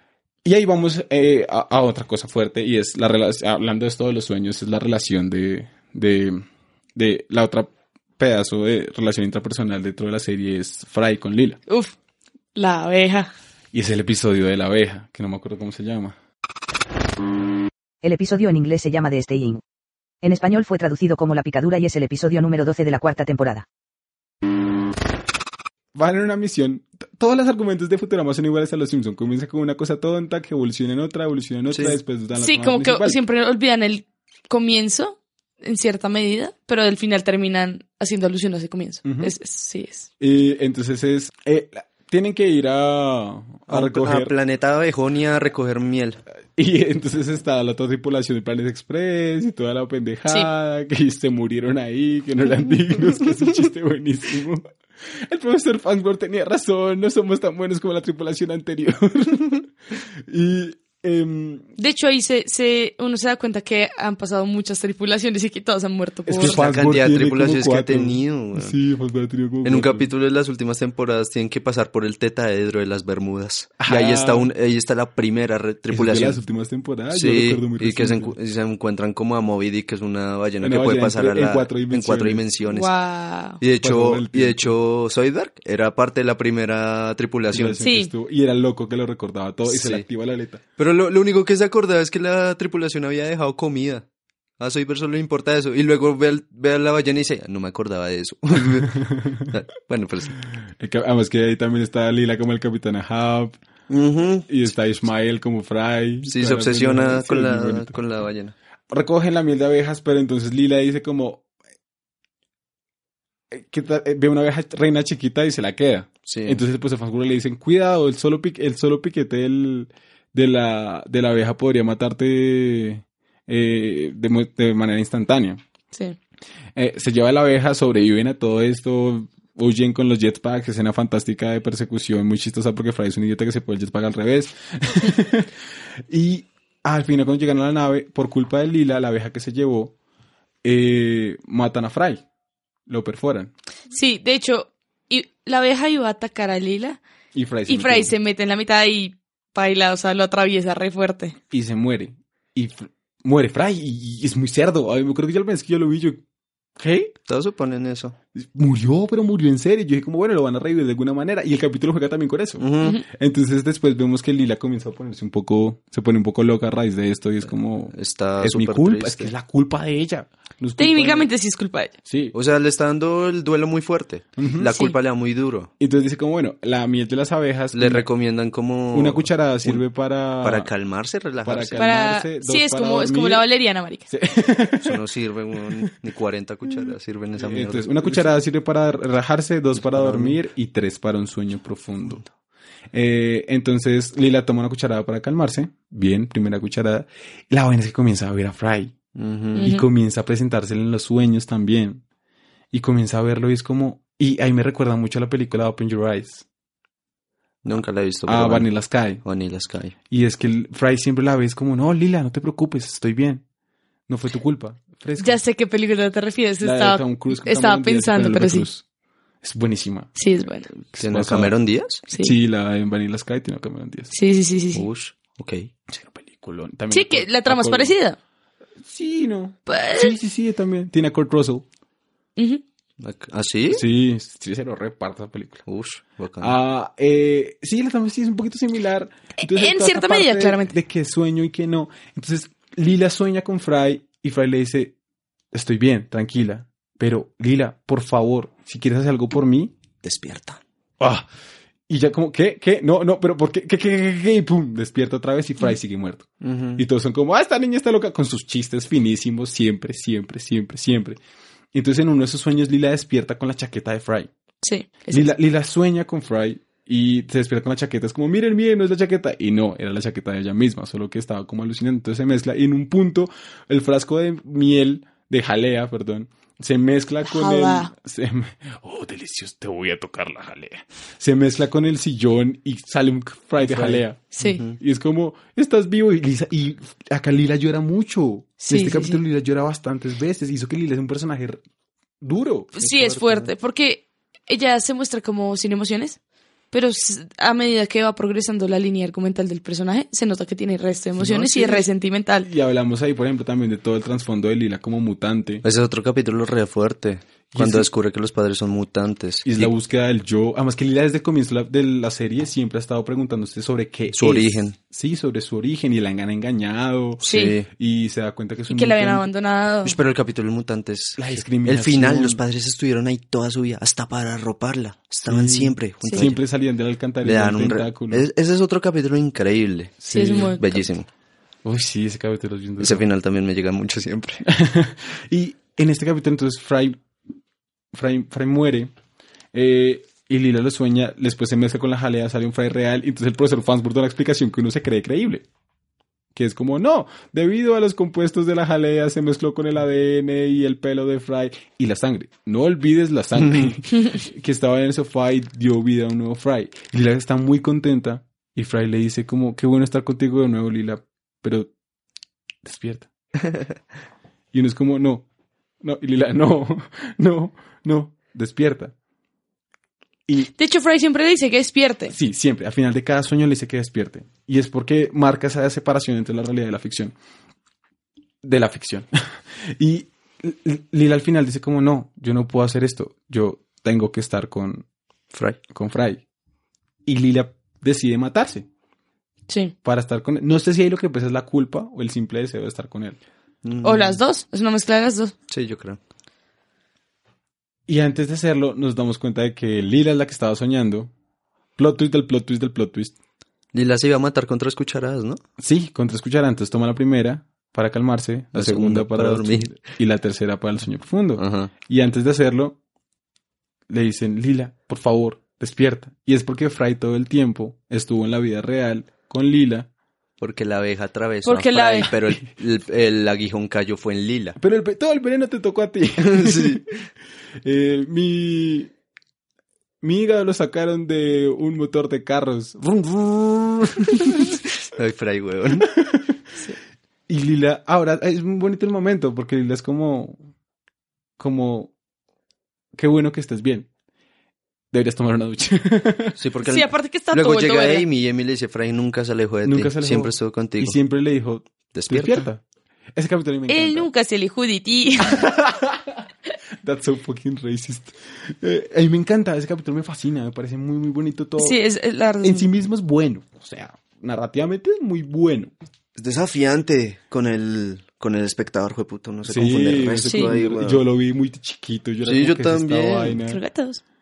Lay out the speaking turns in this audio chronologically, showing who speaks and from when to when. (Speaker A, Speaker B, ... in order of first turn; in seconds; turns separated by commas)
Speaker A: 0.4-11.6, Speaker B: 11.7-11.9, Speaker B: 12.5-13.3, Speaker A: 13.7-16.1, Speaker C: 18.0-19.6, Speaker C: 20.2-23.6, Speaker A: 25.9-33.2, Speaker D: 31.7-32.0, Speaker B: 32.3-40.1, Speaker A: 39.0-39.3, Speaker A: 40.2-44.3, Speaker D: 43.7-46.2, Speaker A: 46.5-61.7, Speaker B: 61.8-66.6, Speaker A: 66.2-70.1, Speaker D: 66.4-68.7, Speaker D: 69.6-76.4, Speaker A: 73.8-74.5, Speaker A: 75.9-78.3, Speaker D: 77.1-82.9, Speaker A: 80.6-82.4, Speaker B: 82.7-83.6, Speaker D: 83.6-87.8, Speaker A: 83.8-84.7, Speaker A: 87.5-90.6, Speaker B: 87.8-88.1, Speaker D: 89.7-90.0, Speaker D: 90.8-94.0, Speaker D: 94.6-100.4, Speaker A: 99.0-99.4, Speaker A: 100.6-103.6, Speaker D: 103.9-104.5, Speaker A: 104.5-108.0, Speaker D: 106.2-108.5, Speaker A: 108.9-111.4, Speaker A: 113.5-125.6, Speaker D: 116.3-116.6, Speaker B: 125.9-126.2, Speaker A: 126.7-135.5, Speaker A: 136.1-139.9, Speaker A: 140.6-142.2, Speaker A: 142.9-143.5, Speaker B: 143.9-147.0, Speaker A: 147.3-148.1, Speaker B: 147.7-151.4, Speaker A: 151.5-156.2, Speaker A: 156.8-157.1, Speaker D: 157.3-158.2, Speaker A: 158.3-171.3, Speaker D: 162.6-163.0, Speaker D: 167.9-169.3, Speaker B: 170.8-171.9, Speaker A: 172.0-172.3, Speaker D: 172.3-175.7, Speaker A: 174.4-174.7, Speaker B: 174.7-174.9, Speaker A: 175.8-178.1, Speaker D: 177.7-179.8, Speaker A: 178.9-180.7, Speaker D: 180.4-181.8, Speaker A: 181.4-183.4, Speaker B: 181.8-184.1, Speaker A: 184.1-185.0, Speaker D: 184.8-188.3, Speaker A: 187.4-192.2, Speaker D: 189.8-190.4, Speaker A: 192.9-198.9, Speaker D: 199.1-199.7, Speaker A: 199.6-202.0, Speaker B: 199.6-199.8, Speaker A: 202.7-206.4, Speaker D: 207.6-208.7, Speaker A: 208.2-209.2, Speaker D: 209.2-209.9, Speaker A: 210.1-213.4, Speaker A: 214.1-215.4, Speaker B: 215.2-218.7, Speaker A: 216.6-218.8, Speaker A: 219.4-220.1, Speaker B: 220.2-220.7, Speaker A: 220.8-221.5, Speaker D: 221.0-222.0, Speaker B: 222.1-222.3, Speaker A: 222.2-224.1, Speaker B: 224.1-224.8, Speaker D: 224.7-225.7, Speaker A: 225.9-227.9, Speaker B: 226.9-228.2, Speaker A: 228.8-231.7, Speaker B: 229.7-230.1, Speaker B: 232.4-232.6, Speaker D: 233.0-233.8, Speaker A: 233.7-235.6, Speaker D: 235.7-236.6, Speaker A: 236.4-244.9, Speaker B: 239.4-240.8, Speaker A: 245.5-249.7, Speaker D: 250.0-250.6, Speaker A: 251.0-251.3, Speaker A: 251.9-261.2, Speaker D: 256.4-256.8, Speaker A: 261.7-264.3, Speaker B: 264.6-265.3, Speaker A: 265.1-291.6, Speaker B: 277.2-277.9, Speaker D: 283.6-284.8, Speaker B: 284.3-284.6, Speaker B: 288.6-289.2, Speaker A: 292.2-292.8, Speaker B: 292.8-296.2, Speaker D: 292.8-293.5, Speaker B: 296.7-302.5, Speaker A: 301.2-301.9, Speaker A: 302.4-305.6, Speaker D: 305.6-309.7, Speaker A: 307.5-307.9, Speaker A: 309.4-319.3, Speaker D: 314.1-314.8, Speaker D: 317.2-317.7, Speaker B: 317.2-317.6, Speaker B: 318.7-319.9, Speaker D: 319.8-326.4, Speaker A: 321.2-322.4, Speaker A: 325.2-328.3, Speaker D: 327.2-330.0, Speaker A: 330.0-330.6, Speaker B: 330.1-330.8, Speaker D: 330.6-331.1, Speaker A: 331.6-333.0, Speaker D: 332.8-334.4, Speaker A: 334.5-337.0, Speaker A: 337.9-338.9, Speaker A: 339.5-345.4, Speaker A: 346.3-361.7, Speaker D: 353.4-353.7, Speaker A: 362.6-363.1, Speaker A: 364.5-365.3, Speaker A: 365.8-368.9, Speaker B: 370.5-372.1, Speaker A: 372.1-377.1, Speaker A: 378.4-384.8, Speaker D: 385.3-385.6, Speaker A: 385.7-386.2, Speaker A: 387.0-388.7, Speaker B: 389.5-389.7, Speaker A: 389.8-393.2, Speaker D: 393.6-394.2, Speaker B: 393.8-395.3, Speaker D: 395.5-396.0, Speaker A: 397.9-401.1, Speaker A: 401.8-403.1, Speaker D: 403.7-405.4, Speaker A: 405.6-412.8, Speaker D: 408.5-409.8, Speaker D: 411.4-411.7, Speaker A: 413.9-419.9, Speaker D: 420.4-424.6, Speaker B: 421.4-422.1, Speaker A: 424.6-426.9, Speaker D: 426.2-426.9, Speaker A: 427.6-428.9, Speaker A: 430.0-434.6, Speaker D: 434.4-435.9, Speaker A: 435.8-436.4, Speaker A: 437.3-440.4, Speaker A: 441.4-441.9, Speaker A: 442.9-443.9, Speaker A: 444.9-446.4, Speaker D: 446.4-451.0, Speaker B: 446.6-448.0, Speaker A: 449.6-452.6, Speaker D: 451.9-452.5, Speaker A: 453.1-454.1, Speaker B: 453.7-455.4, Speaker A: 455.2-456.3, Speaker A: 456.8-461.8, Speaker B: 461.6-462.7, Speaker A: 462.4-465.7, Speaker D: 466.1-471.0, Speaker A: 469.4-473.6, Speaker B: 470.3-470.5, Speaker D: 472.2-473.4, Speaker B: 473.5-474.0